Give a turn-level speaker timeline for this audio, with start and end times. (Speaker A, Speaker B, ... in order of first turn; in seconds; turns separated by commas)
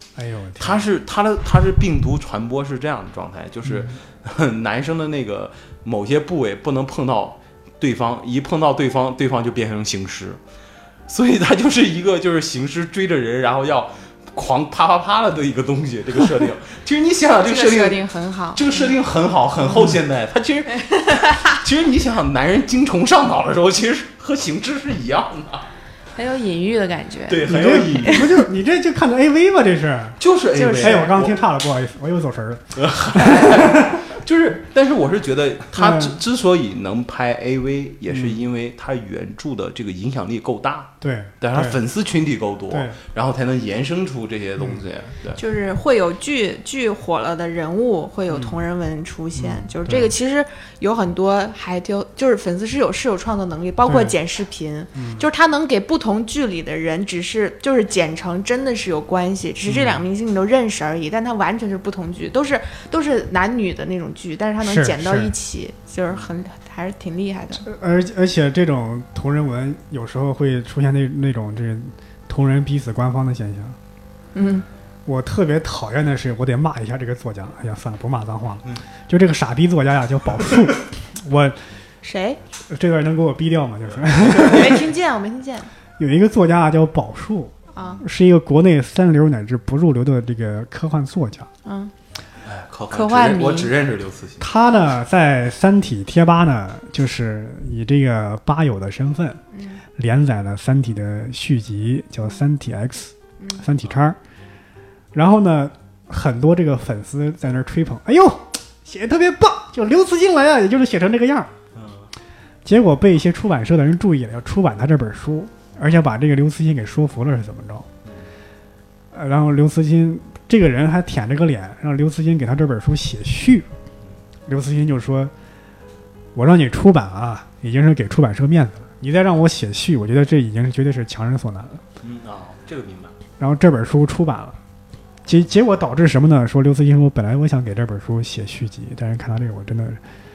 Speaker A: 0.2-0.8, Speaker B: 0.6-10.4, Speaker A: 3.6-4.0, Speaker B: 11.1-25.7, Speaker C: 17.4-18.9, Speaker C: 20.9-21.6, Speaker C: 26.1-28.2, Speaker B: 27.3-28.4, Speaker A: 27.5-30.2, Speaker B: 30.2-31.4, Speaker C: 30.6-31.1, Speaker A: 30.8-34.0, Speaker B: 32.8-45.4, Speaker A: 35.7-36.2, Speaker A: 38.1-38.4, Speaker A: 41.0-41.8, Speaker A: 42.7-43.0, Speaker C: 45.4-67.7, Speaker A: 49.4-50.1, Speaker A: 53.9-54.2, Speaker A: 55.0-55.2, Speaker A: 59.7-60.0, Speaker A: 64.6-65.3, Speaker A: 67.6-73.8, Speaker C: 74.3-74.7, Speaker A: 75.1-81.6, Speaker C: 82.0-82.4, Speaker A: 82.7-84.8, Speaker B: 84.0-84.8, Speaker C: 84.4-85.7, Speaker A: 86.0-91.5, Speaker C: 87.8-88.0, Speaker C: 91.7-91.9, Speaker B: 92.4-94.5, Speaker C: 92.9-93.7, Speaker A: 94.4-99.4, Speaker C: 99.5-99.8, Speaker A: 100.0-104.2, Speaker C: 103.4-103.7, Speaker A: 105.1-111.5, Speaker B: 111.8-112.1, Speaker A: 112.7-117.9, Speaker A: 119.1-123.7, Speaker A: 124.5-125.3, Speaker A: 126.3-131.8, Speaker B: 132.0-133.2, Speaker A: 133.4-134.6, Speaker A: 135.2-140.0